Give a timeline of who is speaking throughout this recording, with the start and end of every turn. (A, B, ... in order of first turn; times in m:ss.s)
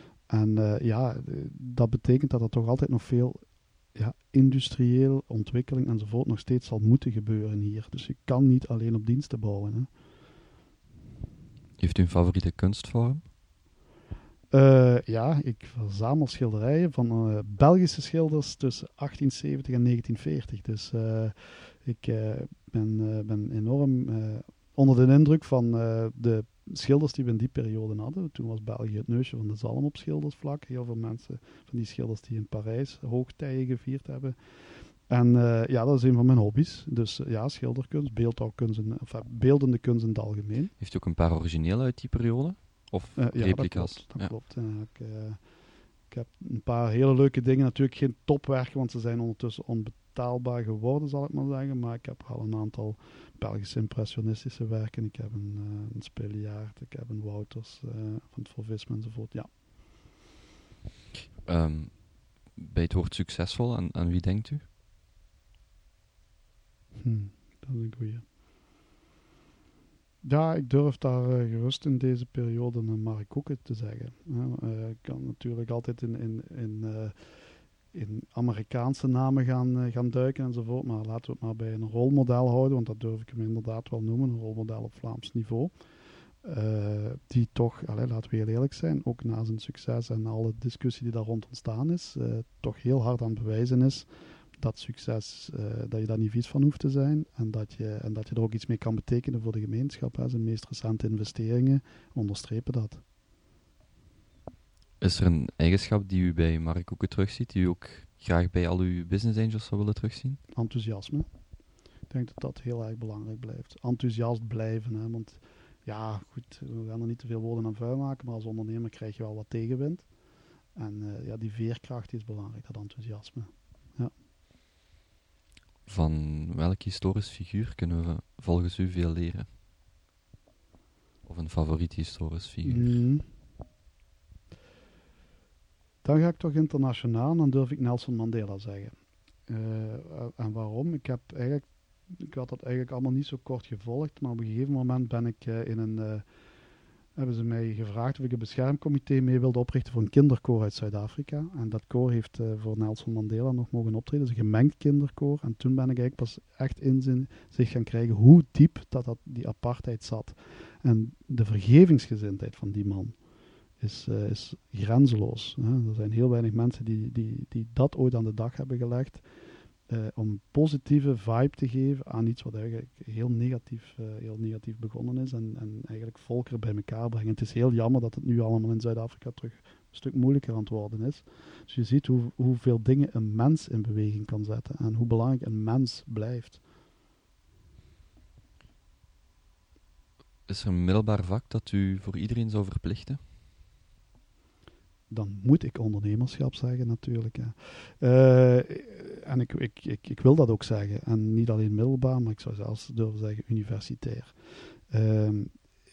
0:00.3-0:03.4 A
0:03.9-0:09.9 A
0:11.8-0:13.2 B
0:14.5-0:34.4 A
0:35.1-0:40.7 A
0:40.8-0:44.3 B
0:43.2-0:45.4 A
0:46.1-0:59.6 A
1:01.4-1:04.6 B
1:07.0-1:08.2 A
1:10.2-1:17.3 A
1:17.9-1:25.7 A
1:26.4-1:34.1 A
1:34.6-1:43.0 A
1:45.0-1:50.4 B
1:50.5-1:51.3 A
1:52.1-2:00.1 A
2:00.8-2:04.1 A
2:05.9-2:09.5 B
2:11.3-2:13.0 B
2:12.6-2:13.2 A
2:16.0-2:18.9 A
2:19.5-2:26.2 A
2:27.2-2:43.2 A
2:43.8-2:49.2 A
2:49.9-3:06.6 A
3:10.5-3:13.2 B
3:15.1-3:24.3 A
3:24.9-3:25.5 A